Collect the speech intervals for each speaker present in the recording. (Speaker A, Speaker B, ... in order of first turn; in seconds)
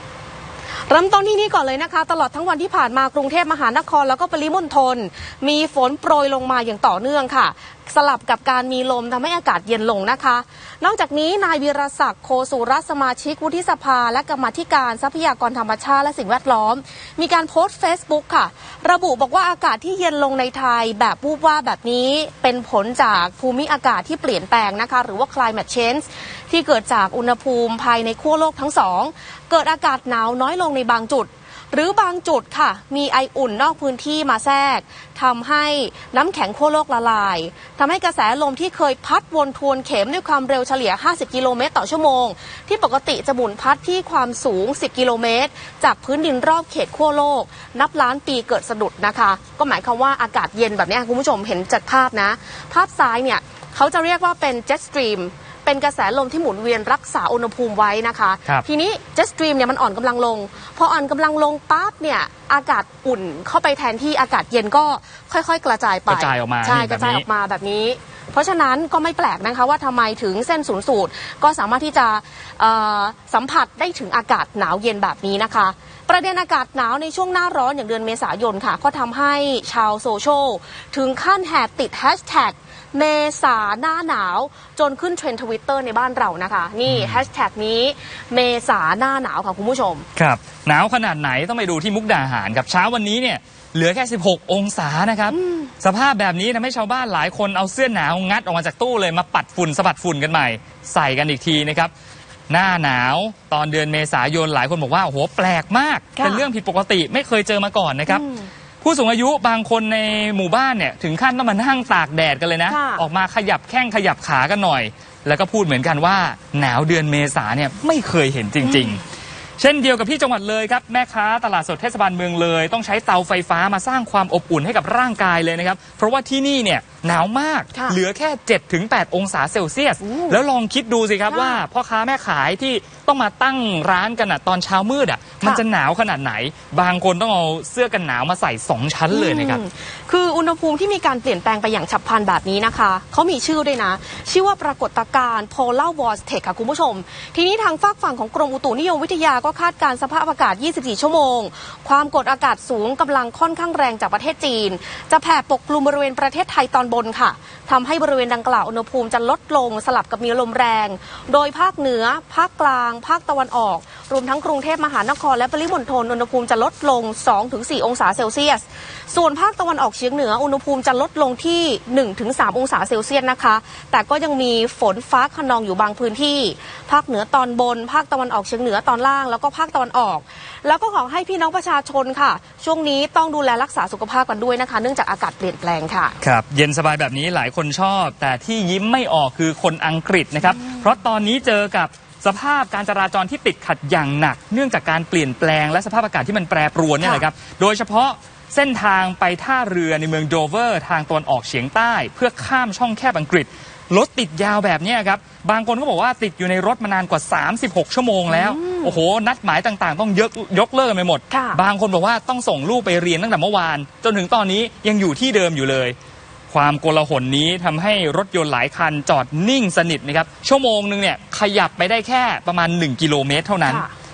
Speaker A: 0.9-90.0, 95.3-95.7, 106.2-106.5, 108.1-108.5, 112.7-113.0, 118.6-119.0, 127.7-128.0, 130.0-130.4, 131.3-131.6, 139.1-186.2, 190.5-190.9, 197.0-197.3, 208.3-209.0, 211.3-211.6, 223.6-223.9
Speaker B: 66.1-67.2, 86.9-87.2, 90.2-101.9, 102.5-108.2, 108.8-119.0, 119.6-139.6, 186.2-215.9, 216.5-223.8